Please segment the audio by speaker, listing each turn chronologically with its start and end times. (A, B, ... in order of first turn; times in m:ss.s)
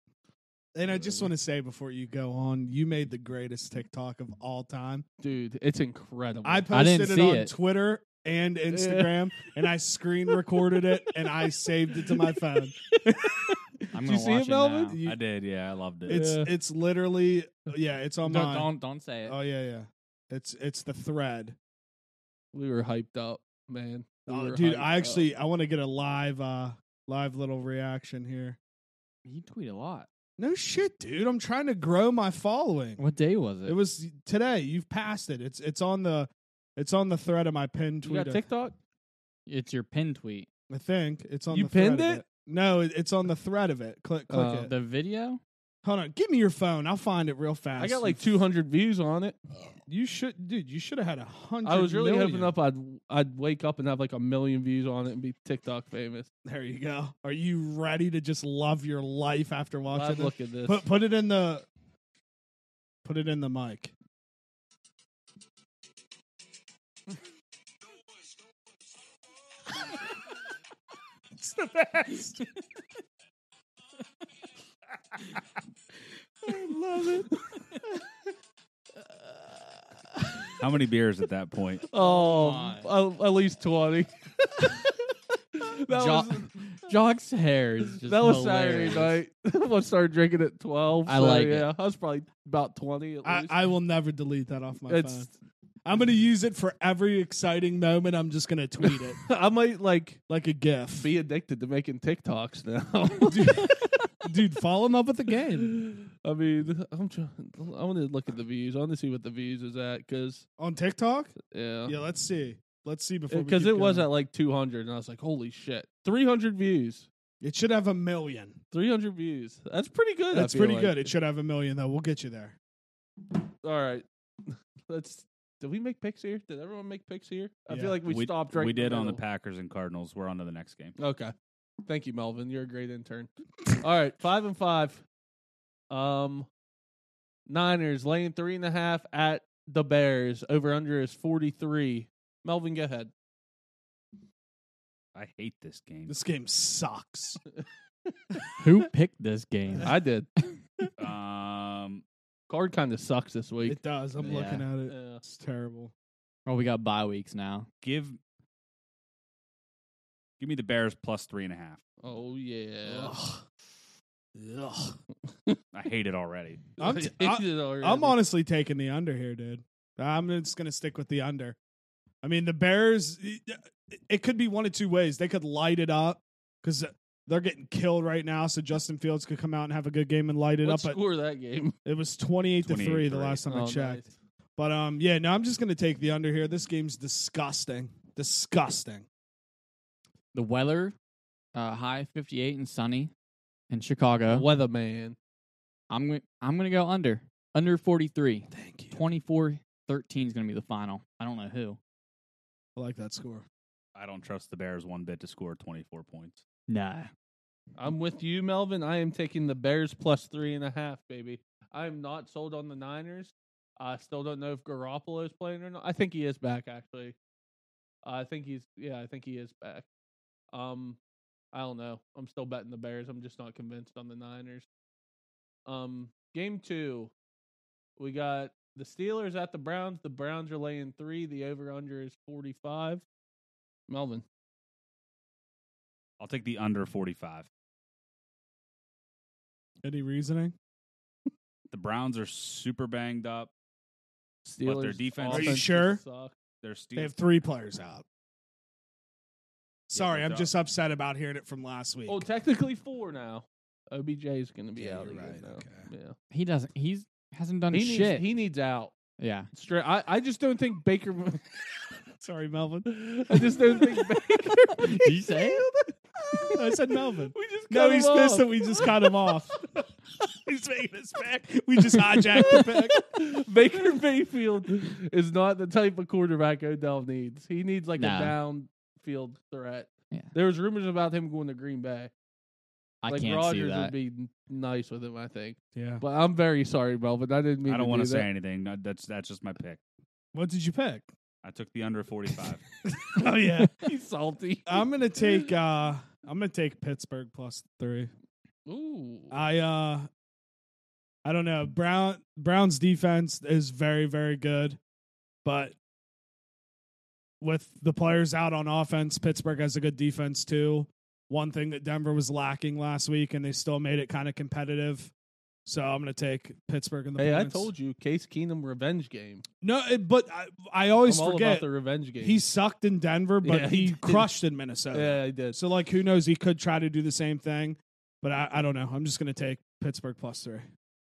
0:00.7-0:05.0 A
0:00.9-0:01.3 B
0:05.2-0:06.7 B
0:06.4-0:13.8 A
0:06.7-0:07.5 C
0:08.7-0:09.1 B
0:11.9-0:12.3 B
0:13.9-0:15.0 C
0:14.0-0:15.0 B
0:15.0-0:16.2 D
0:16.1-0:18.7 A
0:16.1-0:16.5 B
0:18.2-0:19.4 C
0:19.2-0:21.6 A
0:22.5-0:25.2 B
0:24.3-0:28.6 A
0:29.2-0:30.1 C
0:30.4-0:33.0 A
0:33.0-0:33.8 C
0:33.6-0:38.4 A
0:38.0-0:38.8 B
0:39.5-0:40.5 C
0:40.7-0:44.7 A
0:41.5-0:42.2 B
0:44.3-0:44.7 B
0:44.6-0:45.4 C
0:45.8-0:48.4 A
0:47.8-0:49.4 B
0:49.9-0:52.5 A
0:51.6-0:56.3 B
0:56.4-1:01.6 A
0:59.9-1:00.8 B
1:03.0-1:03.9 A
1:11.4-1:12.4 A
1:16.4-1:17.3 A
1:20.6-1:21.8 D
1:21.9-1:26.6 B
1:22.0-1:22.9 C
1:25.9-1:29.2 C
1:27.9-1:33.6 B
1:31.0-1:31.7 C
1:33.2-1:35.3 A
1:34.9-1:35.3 B
1:35.8-1:39.2 A
1:38.8-1:40.2 B
1:40.3-1:41.1 A
1:40.9-1:43.9 B
1:43.2-1:45.8 A
1:45.6-1:50.4 B
1:50.6-1:54.1 A
1:51.5-1:51.9 B
1:53.3-1:57.1 B
1:57.4-1:58.6 A
1:58.7-2:01.1 B
2:00.3-2:02.6 A
2:03.6-2:09.2 B
2:07.7-2:08.0 A
2:08.1-2:11.0 D
2:11.0-2:11.3 B
2:11.8-2:15.0 B
2:15.9-2:16.5 B
2:17.5-2:23.1 B
2:25.1-2:26.1 D
2:26.1-2:27.4 A
2:28.6-2:30.9 C
2:29.8-2:30.3 B
2:31.0-2:32.0 D
2:32.5-2:35.2 B
2:33.6-2:35.9 A
2:34.2-2:34.6 C
2:36.4-2:37.7 C
2:37.8-2:38.2 D
2:40.4-2:41.8 D
2:42.0-2:43.1 B
2:42.8-2:43.4 A
2:44.3-2:45.0 A
2:45.3-2:45.6 B
2:45.7-2:46.6 D
2:46.8-2:48.2 B
2:46.8-2:51.6 A
2:52.2-3:01.0 A
3:00.6-3:01.8 B
3:01.8-3:04.0 A
3:02.6-3:03.4 D
3:03.5-3:04.1 B
3:04.6-3:09.1 A
3:10.3-3:10.9 C
3:11.5-3:13.1 C
3:13.7-3:14.4 C
3:14.3-3:15.2 B
3:15.9-3:21.8 C
3:18.5-3:19.0 A
3:22.8-3:23.4 A
3:23.9-3:26.4 D
3:26.7-3:27.1 C
3:27.8-3:37.2 B
3:38.0-3:39.9 B
3:40.5-3:41.0 B
3:41.5-3:44.7 B
3:45.7-3:47.1 B
3:48.0-3:53.0 B
3:53.9-3:54.2 B
3:56.2-3:57.5 D
3:59.8-4:00.5 A
4:01.7-4:03.5 D
4:04.4-4:06.3 B
4:04.6-4:05.6 D
4:05.3-4:06.0 A
4:06.6-4:07.1 D
4:07.0-4:08.0 A
4:09.9-4:12.2 A
4:09.9-4:10.5 D
4:12.1-4:16.2 B
4:14.8-4:15.9 A
4:16.3-4:18.3 C
4:17.7-4:18.9 B
4:19.2-4:19.5 C
4:19.5-4:21.5 B
4:22.2-4:24.1 A
4:22.9-4:29.8 B
4:24.8-4:25.7 C
4:26.5-4:29.5 A
4:30.3-4:33.0 A
4:32.3-4:42.1 B
4:38.0-4:38.4 C
4:43.0-4:43.9 C
4:43.1-4:48.3 B
4:45.7-4:46.0 A
4:47.7-4:49.8 D
4:50.3-4:51.1 A
4:51.4-4:52.7 D
4:52.9-4:53.8 A
4:53.8-4:55.5 B
4:54.6-4:58.1 A
4:58.6-4:59.4 B
4:59.3-5:00.1 A
5:01.2-5:04.8 A
5:05.4-5:05.8 A
5:07.4-5:15.1 A
5:15.6-5:17.7 A
5:17.2-5:19.4 B
5:19.6-5:21.6 A
5:21.0-5:22.4 B
5:22.2-5:30.6 A
5:23.4-5:24.3 B
5:24.9-5:25.6 B